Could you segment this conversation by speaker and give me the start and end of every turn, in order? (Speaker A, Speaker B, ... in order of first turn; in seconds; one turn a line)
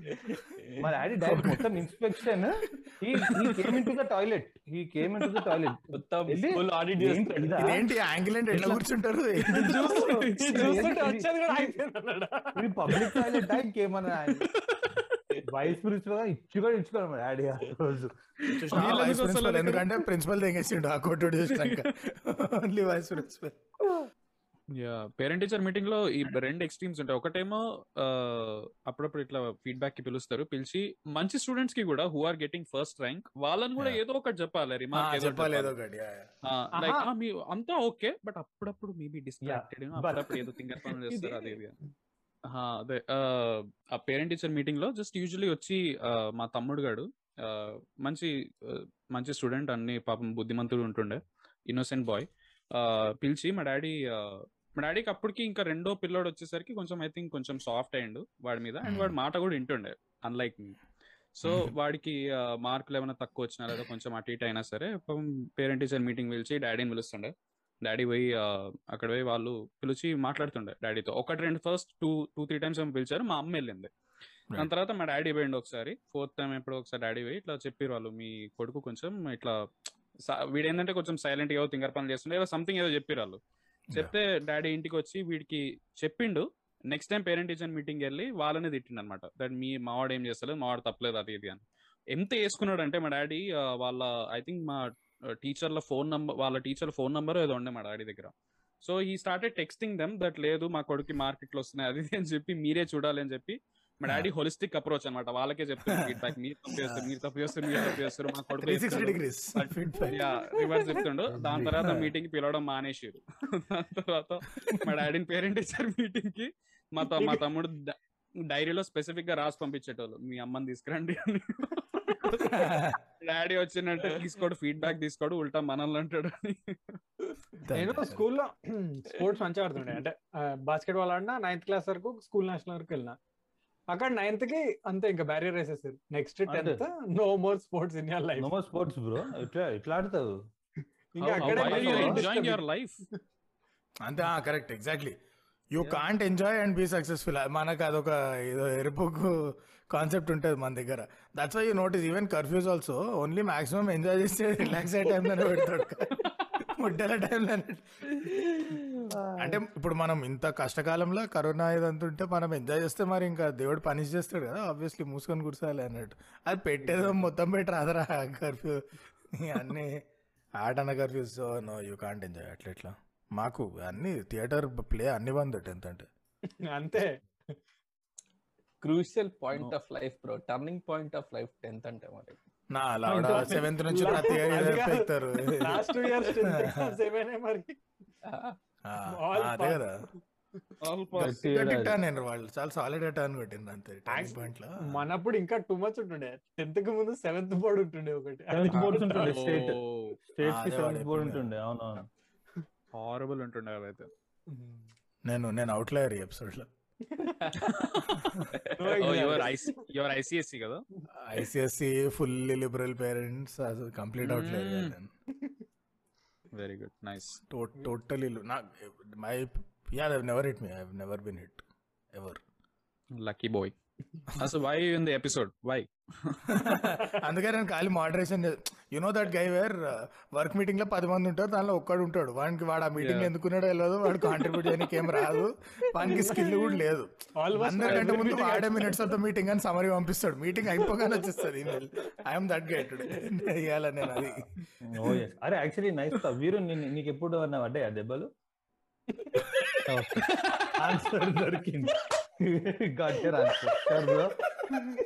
Speaker A: 0.2-0.9
Speaker B: 0.8-7.8
Speaker C: 1.2-1.6
Speaker C: 3.2-3.8
Speaker A: 5.9-7.8
Speaker D: 7.6-10.0
Speaker C: 8.5-8.8
Speaker C: 9.5-10.9
Speaker B: 9.7-11.3
Speaker E: 9.7-13.4
Speaker B: 12.6-14.5
Speaker B: 15.5-18.1
Speaker A: 18.5-18.9
Speaker D: 18.5-23.6
Speaker C: 18.7-19.9
Speaker C: 21.5-21.8
Speaker C: 24.8-35.7
Speaker D: 34.9-36.3
Speaker C: 36.4-41.7
Speaker E: 36.8-37.1
Speaker B: 39.4-40.5
Speaker A: 41.2-41.6
Speaker C: 42.5-60.8
Speaker D: 58.8-59.1
Speaker C: 61.4-73.9
Speaker D: 61.5-61.7
Speaker C: 74.6-79.6
Speaker C: 80.2-83.4
Speaker C: 83.9-91.6
Speaker C: 92.1-118.0
Speaker D: 105.9-106.2
Speaker D: 106.8-107.1
Speaker D: 107.7-108.0
Speaker D: 108.6-110.2
Speaker B: 111.3-112.0
Speaker C: 118.5-127.0
Speaker D: 122.3-123.0
Speaker D: 127.6-128.2
Speaker E: 127.7-133.2
Speaker E: 133.9-138.5
Speaker B: 136.5-136.8
Speaker B: 138.4-140.3
Speaker E: 141.1-142.6
Speaker C: 141.2-143.0
Speaker B: 141.4-142.2
Speaker D: 144.0-145.2
Speaker D: 145.7-158.4
Speaker A: 158.2-159.1
Speaker B: 159.1-159.6
Speaker D: 159.4-168.8
Speaker D: 169.3-169.9
Speaker D: 170.6-176.1
Speaker E: 176.7-177.6
Speaker A: 178.8-182.4
Speaker D: 182.7-187.0
Speaker E: 183.1-187.8
Speaker A: 188.3-188.6
Speaker D: 188.8-189.9
Speaker E: 189.1-189.9
Speaker C: 190.8-191.4
Speaker B: 191.2-192.0
Speaker D: 191.2-195.0
Speaker E: 194.1-199.4
Speaker B: 198.5-199.8
Speaker C: 198.7-200.2
Speaker B: 200.3-202.1
Speaker D: 200.4-201.4
Speaker C: 202.9-204.1
Speaker E: 204.5-204.8
Speaker D: 205.2-206.7
Speaker A: 207.2-207.6
Speaker C: 207.6-208.2
Speaker A: 208.6-209.3
Speaker E: 208.8-209.8
Speaker C: 208.9-210.8
Speaker D: 211.2-215.1
Speaker C: 214.2-214.9
Speaker C: 216.5-217.4
Speaker D: 217.5-222.4
Speaker C: 223.2-223.8
Speaker C: 224.3-226.7
Speaker D: 226.5-244.5
Speaker C: 233.0-233.3
Speaker E: 236.0-236.7
Speaker E: 237.4-239.1
Speaker B: 244.8-248.3
Speaker B: 249.9-254.4
Speaker C: 250.2-250.8
Speaker A: 253.3-253.9